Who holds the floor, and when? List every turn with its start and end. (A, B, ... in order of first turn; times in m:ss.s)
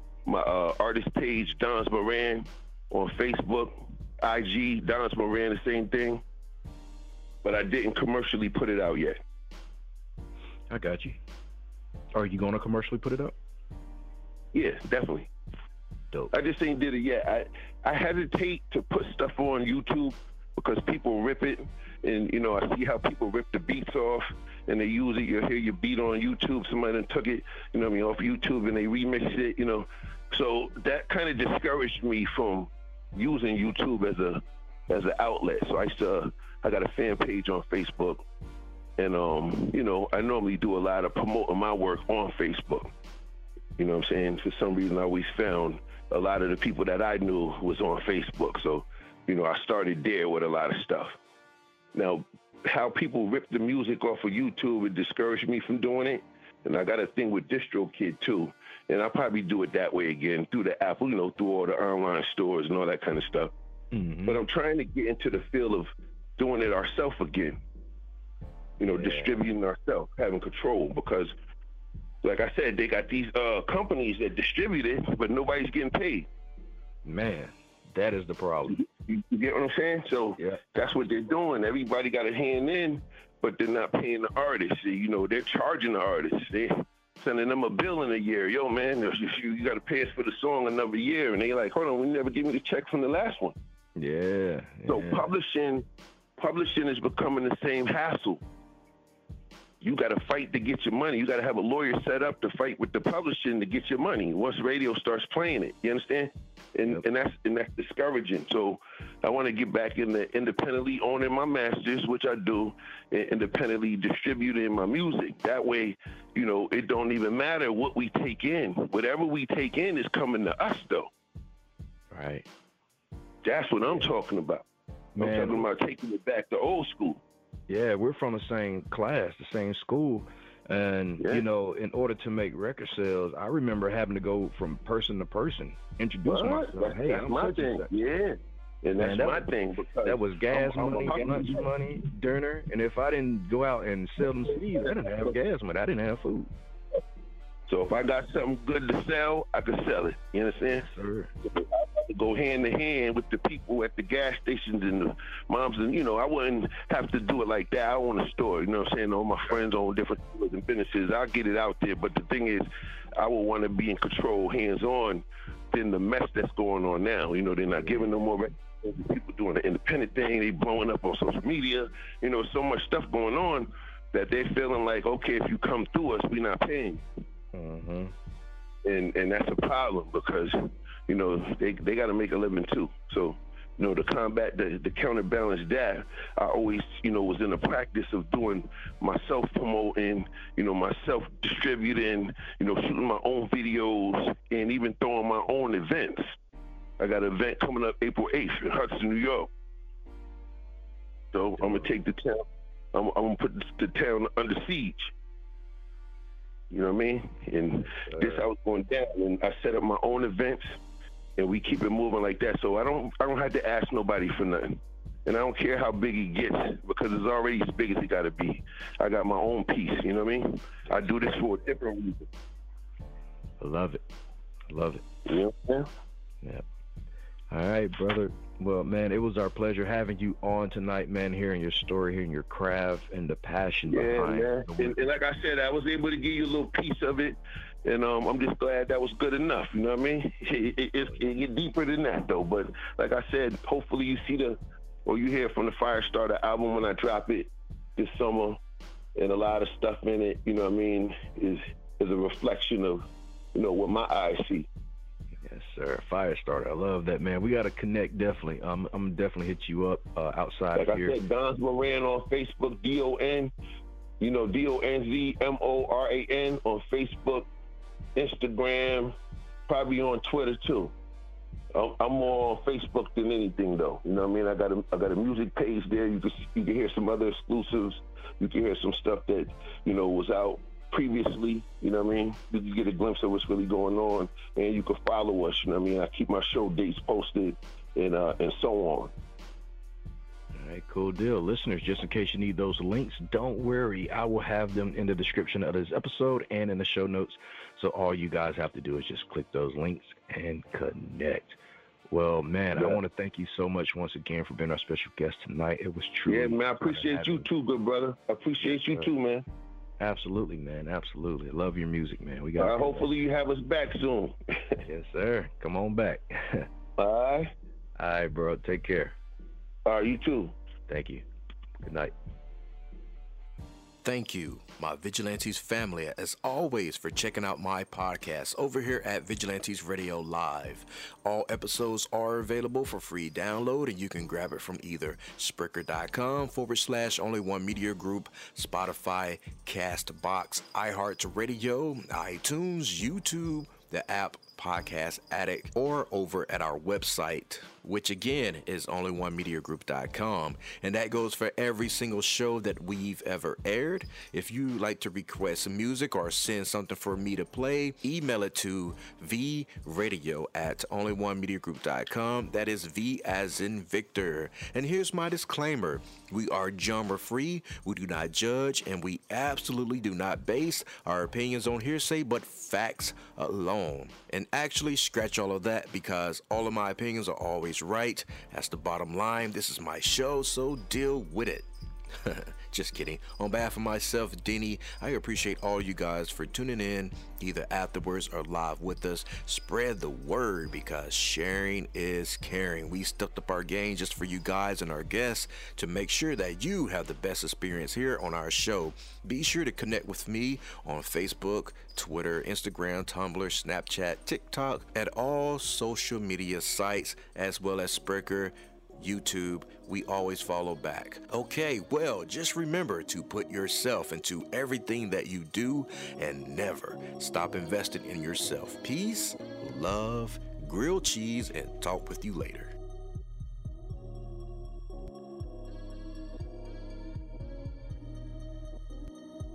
0:00.3-0:06.2 A
0:07.4-0:09.2 A
0:10.7-0:11.2 B
0:12.1-0:13.4 B
0:14.5-0:15.3 A
0:16.3-0:38.2 A
0:39.0-0:42.9 A
0:43.8-0:51.2 A
0:52.0-1:03.5 A
1:03.9-1:04.4 B
1:04.3-1:07.6 A
1:08.8-1:11.3 A
1:08.8-1:09.4 B
1:12.2-1:16.3 A
1:17.0-1:18.8 B
1:18.7-1:33.6 A
1:34.0-1:35.3 B
1:34.9-1:35.8 A
1:36.4-1:38.4 A
1:39.8-2:01.1 A
2:02.1-2:02.5 B
2:03.4-2:04.6 A
2:03.8-2:04.1 B
2:05.2-2:05.7 B
2:05.2-2:07.2 A
2:07.7-2:17.9 B
2:11.2-2:11.4 A
2:16.2-2:21.7 A
2:19.0-2:19.5 B
2:20.0-2:26.5 B
2:24.2-2:25.3 A
2:27.7-2:30.9 A
2:30.6-2:31.3 B
2:31.4-2:42.7 A
2:43.2-2:57.0 A
2:47.7-2:48.1 B
2:57.5-2:58.1 B
2:58.8-3:16.4 A
3:17.0-3:19.5 A
3:21.3-3:25.1 A
3:21.6-3:21.9 B
3:26.7-3:30.8 A
3:27.8-3:28.5 B
3:31.4-3:42.3 A
3:41.1-3:41.4 B
3:43.6-3:44.0 B
3:44.7-3:45.0 B
3:45.3-3:45.9 A
3:47.5-3:55.0 B
3:53.9-4:08.6 A
4:09.2-4:14.7 A
4:15.4-4:21.2 B
4:20.8-4:23.5 A
4:24.2-4:27.5 A
4:28.2-4:29.2 A
4:29.7-4:30.9 A
4:31.7-4:49.1 A
4:50.5-5:07.5 B
5:02.8-5:03.0 A
5:06.3-5:09.4 A
5:08.6-5:09.1 B
5:10.0-5:13.1 B
5:12.6-5:14.8 A
5:14.8-5:16.7 B
5:17.0-5:17.5 A
5:18.0-5:19.2 B
5:19.9-5:20.5 A
5:20.9-5:21.2 B
5:21.8-5:22.1 B
5:24.0-6:21.7 C
6:22.2-7:02.7 C